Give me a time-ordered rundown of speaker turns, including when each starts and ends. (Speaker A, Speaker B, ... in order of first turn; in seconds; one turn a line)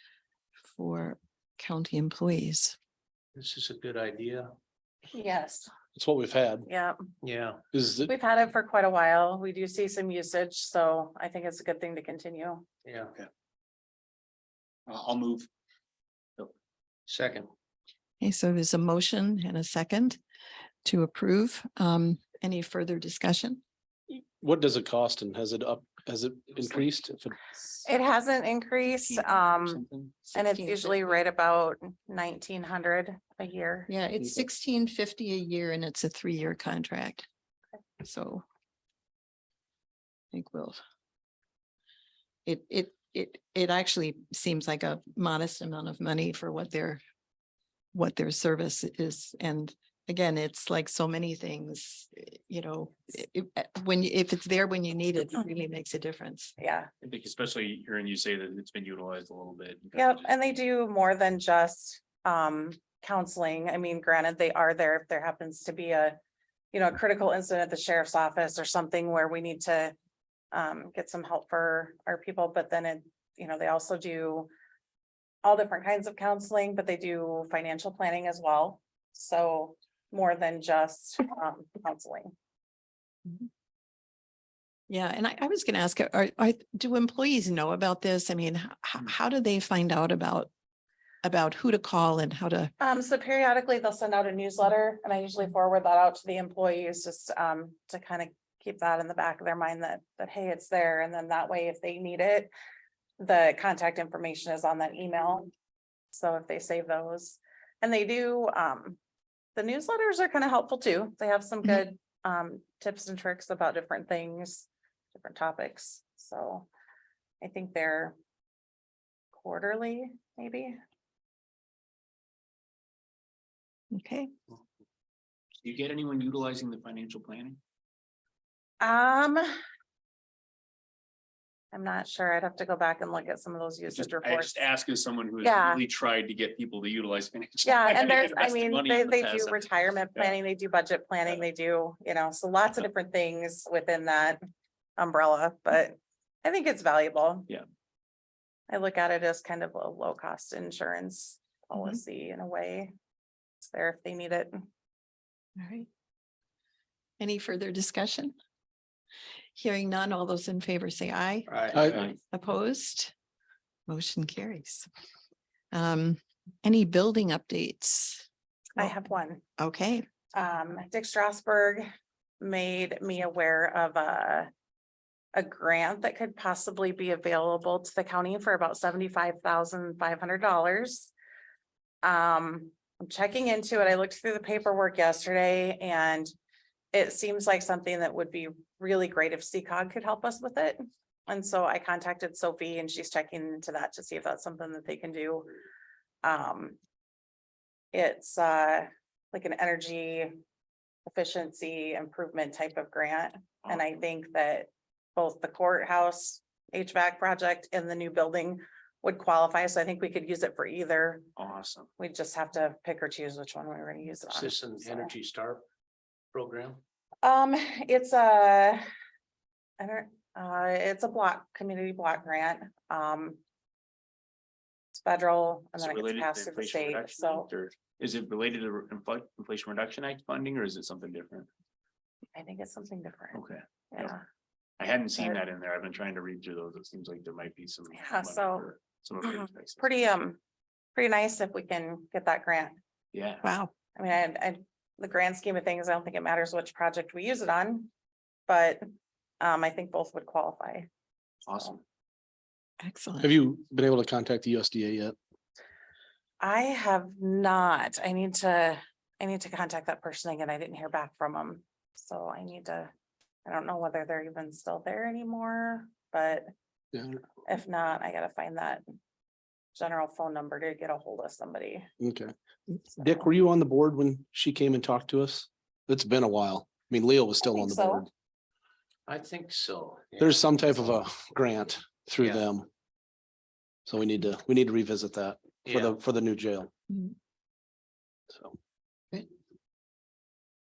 Speaker A: 0.8-2.8
Speaker B: 3.4-4.5
Speaker C: 5.1-5.7
Speaker D: 6.0-6.7
Speaker C: 6.7-7.0
Speaker B: 7.2-7.6
Speaker D: 7.7-8.1
Speaker C: 8.1-12.7
Speaker B: 12.8-13.2
Speaker E: 14.9-15.5
Speaker B: 17.1-17.5
Speaker A: 18.2-20.2
Speaker A: 20.8-23.6
Speaker D: 24.1-27.4
Speaker C: 27.9-29.8
Speaker E: 28.9-30.1
Speaker A: 30.3-31.2
Speaker C: 30.3-33.9
Speaker A: 33.9-37.3
Speaker A: 38.0-38.5
Speaker A: 40.3-40.8
Speaker A: 42.5-47.0
Speaker A: 47.9-56.5
Speaker C: 56.6-56.9
Speaker E: 57.0-60.3
Speaker C: 60.0-66.2
Speaker C: 66.7-69.9
Speaker C: 70.5-74.5
Speaker C: 75.4-82.3
Speaker A: 84.9-90.5
Speaker A: 91.2-92.7
Speaker C: 92.8-102.5
Speaker C: 103.2-105.5
Speaker C: 106.1-109.0
Speaker C: 109.6-116.7
Speaker C: 117.4-118.2
Speaker C: 119.3-120.8
Speaker A: 123.9-124.3
Speaker E: 125.6-127.6
Speaker C: 128.8-129.6
Speaker C: 131.7-134.7
Speaker E: 133.9-140.4
Speaker C: 135.4-135.8
Speaker C: 137.7-144.4
Speaker C: 145.0-147.5
Speaker C: 148.7-152.9
Speaker C: 153.6-154.6
Speaker A: 155.6-155.9
Speaker A: 157.2-158.3
Speaker A: 159.6-161.5
Speaker B: 161.5-161.9
Speaker D: 161.8-162.0
Speaker A: 162.3-163.1
Speaker A: 163.9-164.9
Speaker A: 165.7-168.9
Speaker C: 168.8-169.4
Speaker A: 169.6-170.1
Speaker C: 170.3-171.9
Speaker C: 172.4-174.5
Speaker C: 175.3-181.1
Speaker C: 182.0-186.3
Speaker C: 186.9-195.5
Speaker C: 196.2-196.8
Speaker C: 197.9-200.4
Speaker C: 201.1-211.3
Speaker E: 211.4-211.9
Speaker C: 212.0-215.1
Speaker B: 214.2-215.7
Speaker B: 216.3-216.8
Speaker C: 217.2-218.8
Speaker C: 219.8-223.4
Speaker C: 225.0-227.5
Speaker E: 225.8-231.5
Speaker C: 232.3-233.4
Speaker E: 233.3-234.1
Speaker C: 233.9-234.2
Speaker E: 234.8-240.0
Speaker C: 237.9-238.7
Speaker C: 239.2-240.4
Speaker C: 240.9-242.8
Speaker E: 243.1-243.5
Speaker A: 243.4-243.7
Speaker C: 244.0-247.9
Speaker C: 248.5-248.8
Speaker C: 249.4-250.9
Speaker E: 251.5-251.8
Speaker A: 252.8-253.3
Speaker D: 253.2-255.2
Speaker C: 256.4-262.9
Speaker C: 263.5-266.5
Speaker D: 266.9-267.2
Speaker C: 267.5-268.8
Speaker C: 269.8-271.9
Speaker D: 272.0-272.3
Speaker D: 272.9-278.1
Speaker C: 277.4-278.1
Speaker B: 279.1-280.9
Speaker D: 280.2-282.7
Speaker B: 282.2-282.4
Speaker D: 283.9-286.7
Speaker B: 285.7-286.0
Speaker D: 288.3-288.6